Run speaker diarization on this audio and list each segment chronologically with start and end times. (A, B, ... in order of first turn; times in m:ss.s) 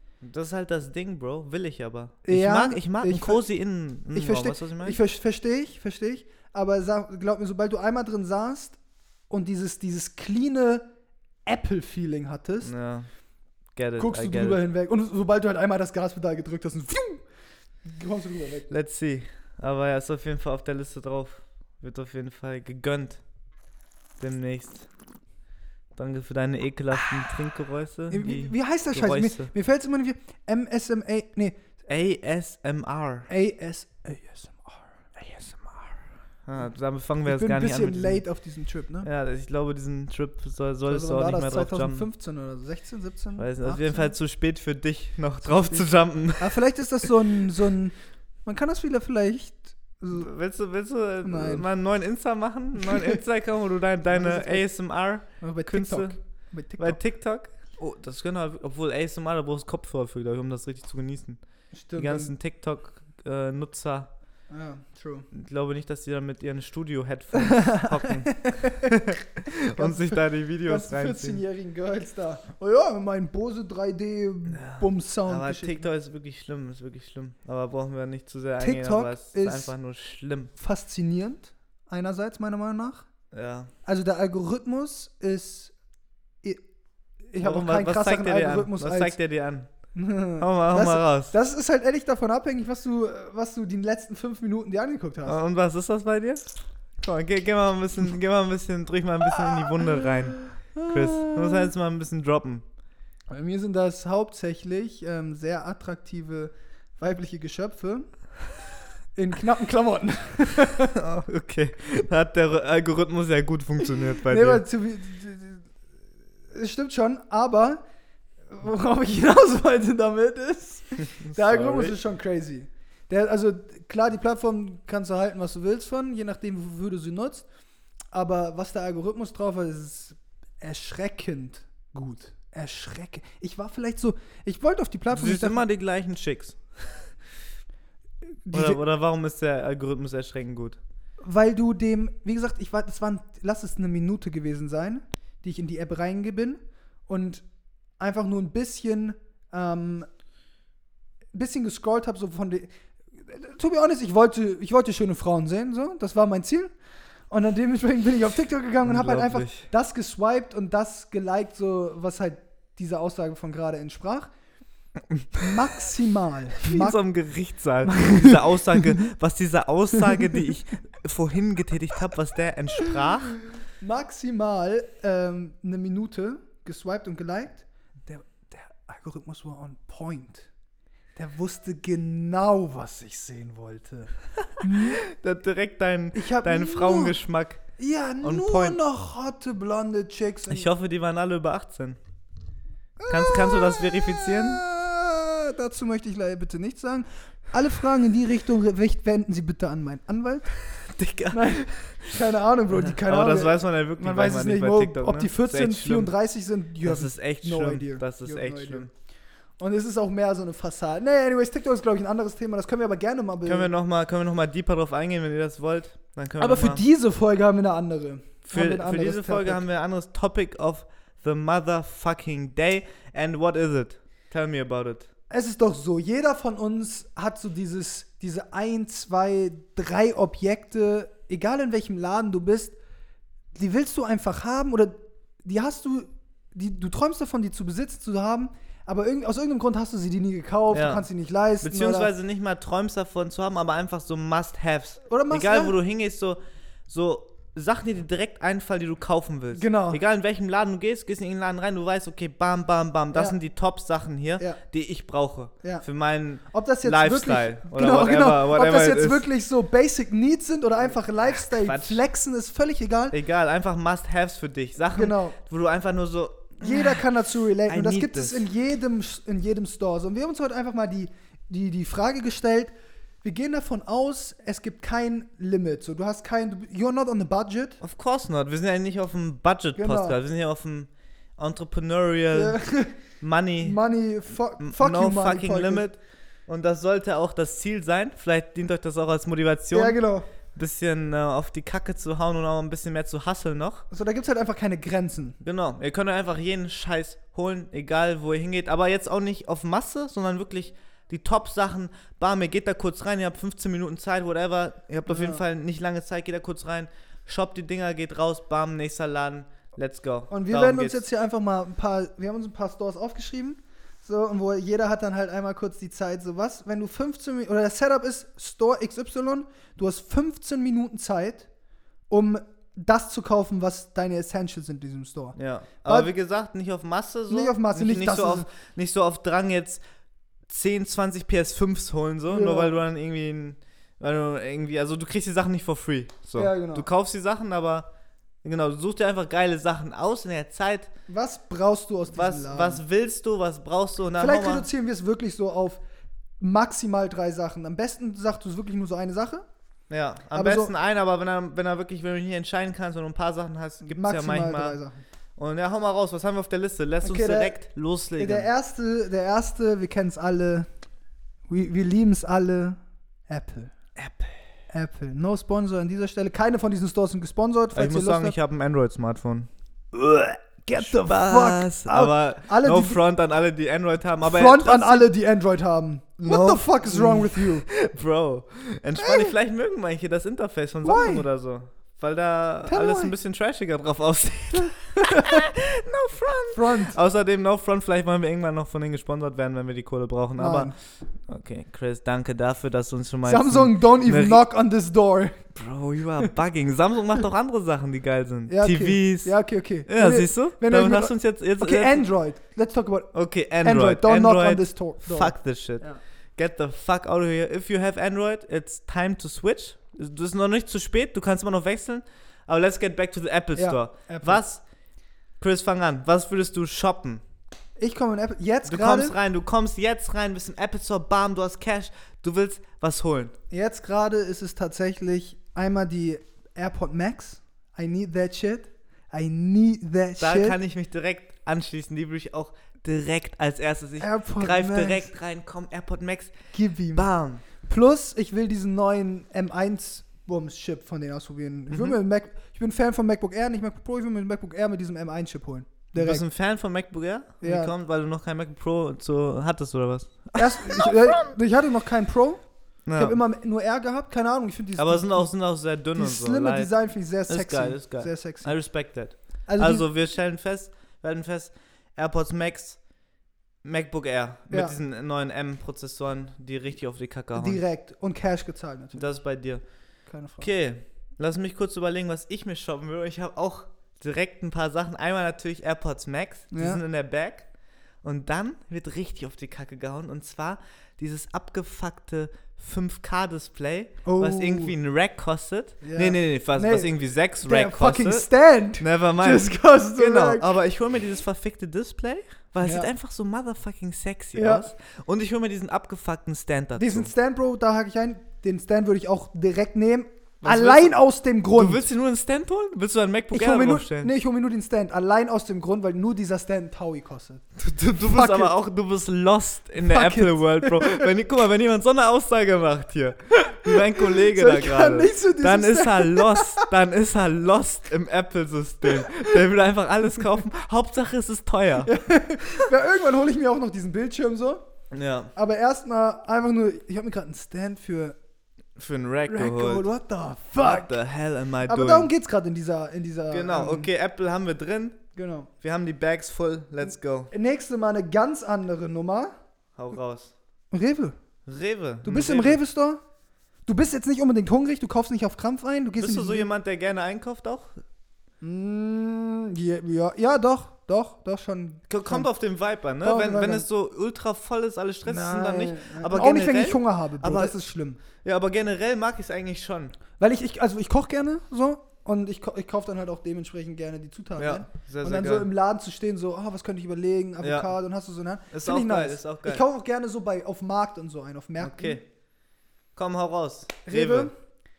0:00.2-0:05.0 A
0:02.2-0:03.4 B
0:04.1-0:08.8 B
0:09.3-0:10.9 B
0:11.4-0:12.7 B
0:12.6-0:13.1 A
0:13.7-0:14.6 A
0:14.0-0:17.2 B
0:17.8-0:18.7 B
0:18.7-0:23.2 A
0:24.2-0:24.9 A
0:25.9-0:29.5 A
0:28.1-0:31.6 B
0:31.9-0:33.3 A
0:33.3-0:35.9 B
0:36.4-0:38.2 A
0:37.2-0:39.1 B
0:39.0-0:42.1 A
0:40.8-0:44.1 B
0:43.4-0:46.6 A
0:45.6-0:50.3 B
0:50.1-0:56.2 A
0:51.2-0:51.7 B
0:52.9-0:53.2 B
0:54.1-0:54.6 B
0:55.4-0:57.0 B
0:56.8-1:01.4 A
1:01.7-1:02.3 B
1:02.0-1:04.1 A
1:04.5-1:05.3 B
1:05.3-1:11.4 A
1:07.3-1:09.0 B
1:09.8-1:15.8 B
1:14.5-1:20.5 A
1:18.6-1:19.7 B
1:20.6-1:23.0 B
1:23.3-1:23.7 A
1:23.8-1:25.7 B
1:27.3-1:29.2 B
1:27.4-1:29.7 A
1:29.9-1:35.4 B
1:30.4-1:31.3 A
1:35.2-1:42.6 A
1:39.4-1:41.7 B
1:43.3-1:48.1 B
1:49.1-1:50.9 B
1:50.9-1:54.6 A
1:54.1-1:55.7 B
1:56.5-1:57.8 B
1:58.5-2:07.4 B
2:01.0-2:02.0 A
2:08.1-2:15.6 B
2:15.1-2:17.1 A
2:18.4-2:18.8 B
2:18.5-2:20.8 A
2:21.2-2:27.4 B
2:28.0-2:30.1 B
2:31.3-2:32.7 B
2:33.2-2:36.7 B
2:37.3-2:44.3 B
2:38.8-2:39.6 A
2:45.1-2:45.6 A
2:45.4-2:47.0 B
2:46.6-2:53.4 A
2:47.8-2:49.0 B
2:53.8-3:00.5 B
3:01.2-3:05.0 B
3:04.7-3:07.6 A
3:06.1-3:07.2 B
3:07.8-3:10.7 B
3:08.2-3:08.8 A
3:10.5-3:12.0 A
3:13.0-3:20.5 B
3:13.1-3:14.6 A
3:20.7-3:22.2 A
3:21.3-3:28.9 B
3:22.8-3:26.1 A
3:26.8-3:28.9 A
3:29.6-3:33.7 B
3:33.4-3:36.8 A
3:36.4-3:39.6 B
3:38.5-3:45.1 A
3:45.3-3:52.8 B
3:53.5-4:02.1 B
4:00.7-4:01.0 A
4:01.6-4:19.2 A
4:05.1-4:05.8 B
4:09.5-4:10.0 B
4:16.5-4:23.2 B
4:21.2-4:22.0 A
4:23.1-4:27.0 A
4:24.9-4:25.4 B
4:26.6-4:32.7 B
4:27.6-4:28.5 A
4:33.2-4:37.8 B
4:37.8-4:42.6 A
4:39.8-4:40.2 B
4:42.3-4:43.0 B
4:43.2-4:43.8 A
4:43.6-4:45.8 B
4:44.6-4:50.0 A
4:49.7-4:50.2 B
4:50.5-4:53.8 A
4:53.9-4:55.4 B
4:55.4-5:11.0 A
5:05.1-5:05.4 B
5:10.3-5:21.5 B
5:22.1-5:26.1 B
5:25.4-5:29.8 A
5:27.3-5:28.5 B
5:30.5-5:37.9 A
5:32.3-5:32.8 B
5:36.4-5:36.9 B
5:38.4-5:40.9 A
5:41.1-5:42.8 B
5:42.1-5:44.7 A
5:44.2-5:45.8 B
5:46.4-5:49.4 B
5:49.9-5:54.8 A
5:50.3-5:50.7 B
5:53.8-5:55.0 B
5:55.4-5:58.5 A
5:57.0-5:57.6 B
5:58.2-6:00.7 B
6:01.5-6:03.7 B
6:04.0-6:04.4 A
6:04.7-6:08.4 B
6:07.7-6:09.5 A
6:09.9-6:13.0 B
6:10.8-6:15.1 A
6:14.2-6:17.7 B
6:16.2-6:30.7 A
6:19.0-6:19.3 B
6:20.8-6:21.3 B
6:22.6-6:23.2 B
6:25.0-6:25.4 B
6:26.5-6:27.0 B
6:30.4-6:30.7 B
6:31.3-6:34.4 A
6:33.2-6:35.4 B
6:35.5-6:39.3 A
6:38.5-6:46.0 B
6:39.9-6:42.0 A
6:43.1-6:54.6 A
6:53.5-6:54.4 B
6:55.4-6:57.2 A
6:57.8-6:59.2 B
6:58.6-7:03.4 A
7:03.5-7:10.6 B
7:10.2-7:16.4 A
7:14.0-7:15.1 B
7:16.5-7:26.2 B
7:16.9-7:17.4 A
7:21.7-7:22.0 A
7:25.9-7:31.1 A
7:27.4-7:27.7 B
7:30.3-7:32.4 B
7:32.8-7:33.2 A
7:32.9-7:35.3 B
7:34.8-7:36.7 A
7:35.9-7:38.6 B
7:37.3-7:42.8 A
7:39.5-7:39.8 B
7:43.6-7:47.6 A
7:44.5-7:44.8 B
7:47.3-7:49.0 B
7:48.9-7:49.6 A
7:50.1-7:50.5 B
7:50.4-7:57.5 A
7:56.5-7:56.8 B
7:58.0-8:08.3 A
8:04.0-8:04.7 B
8:05.8-8:10.5 B
8:08.8-8:17.1 A
8:12.6-8:12.9 B
8:14.3-8:14.7 B
8:16.8-8:21.8 B
8:20.4-8:21.0 A
8:21.5-8:24.1 A
8:23.3-8:27.4 B
8:27.6-8:41.9 A
8:28.0-8:28.5 B
8:29.8-8:31.1 B
8:33.4-8:36.7 B
8:41.8-8:44.6 B
8:44.9-8:45.3 A
8:45.3-8:48.2 B
8:48.8-8:49.9 A
8:49.3-8:51.0 B
8:50.6-8:52.1 A
8:51.6-8:53.9 B
8:53.3-8:55.0 A
8:55.1-8:55.5 B
8:55.6-8:57.3 A
8:57.3-8:59.3 B
8:59.8-9:00.3 A
9:00.7-9:01.1 B
9:01.4-9:02.6 A
9:02.0-9:03.0 B
9:03.6-9:06.5 B
9:06.0-9:07.8 A
9:08.4-9:12.3 B
9:11.9-9:17.6 A
9:13.0-9:13.6 B
9:15.0-9:18.0 B
9:18.2-9:19.9 A
9:20.2-9:32.0 B
9:24.4-9:25.5 A
9:27.4-9:27.7 A
9:28.5-9:29.6 A
9:31.6-9:32.0 A
9:32.9-9:34.3 A
9:33.8-9:34.3 B